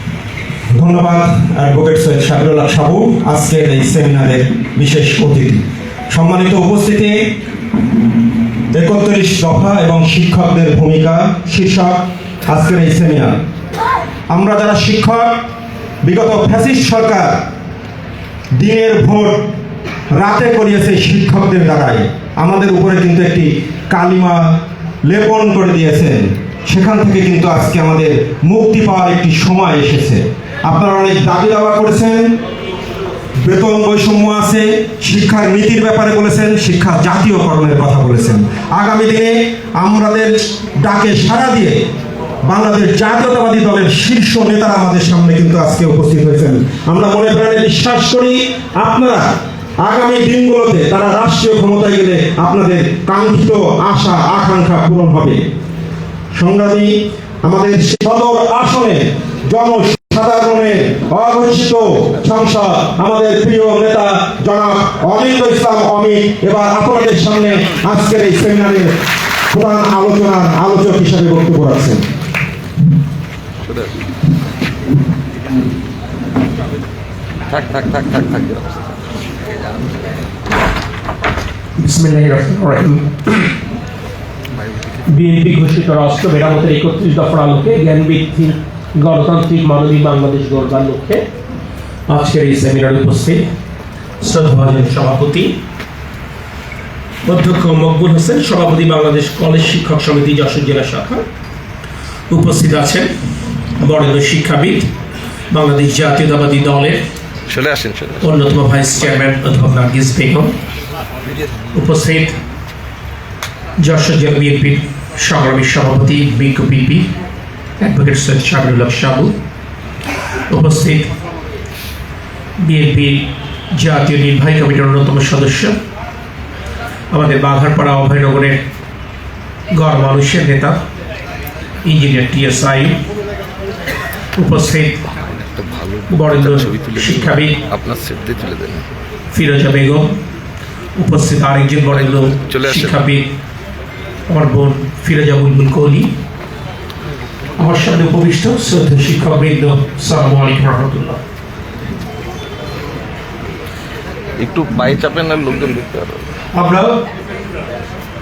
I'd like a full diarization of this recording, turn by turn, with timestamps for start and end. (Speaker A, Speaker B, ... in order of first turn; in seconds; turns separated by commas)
Speaker A: 0.7-7.2, Speaker A: 8.7-13.4, Speaker A: 14.3-15.3, Speaker A: 16.0-17.4, Speaker A: 18.6-19.5, Speaker A: 20.1-32.3, Speaker A: 33.4-41.8, Speaker A: 42.4-55.4, Speaker A: 56.3-69.0, Speaker A: 69.5-72.0, Speaker B: 77.5-78.9, Speaker C: 81.8-83.5, Speaker C: 85.1-91.2, Speaker C: 92.1-93.5, Speaker C: 94.2-95.5, Speaker C: 97.2-101.2, Speaker C: 102.3-103.1, Speaker C: 103.8-104.9, Speaker C: 105.5-107.0, Speaker B: 107.5-108.3, Speaker C: 108.2-110.5, Speaker C: 111.7-112.4, Speaker C: 113.8-117.0, Speaker C: 117.8-119.3, Speaker C: 120.5-121.1, Speaker C: 122.6-125.8, Speaker C: 127.1-128.6, Speaker C: 129.7-130.8, Speaker C: 131.8-133.0, Speaker C: 134.4-135.0, Speaker B: 135.2-138.8, Speaker C: 136.1-137.6, Speaker C: 139.3-140.1, Speaker C: 140.9-143.3, Speaker B: 142.4-143.0, Speaker C: 144.3-146.1, Speaker C: 147.6-151.2, Speaker B: 154.4-156.2, Speaker C: 156.5-157.0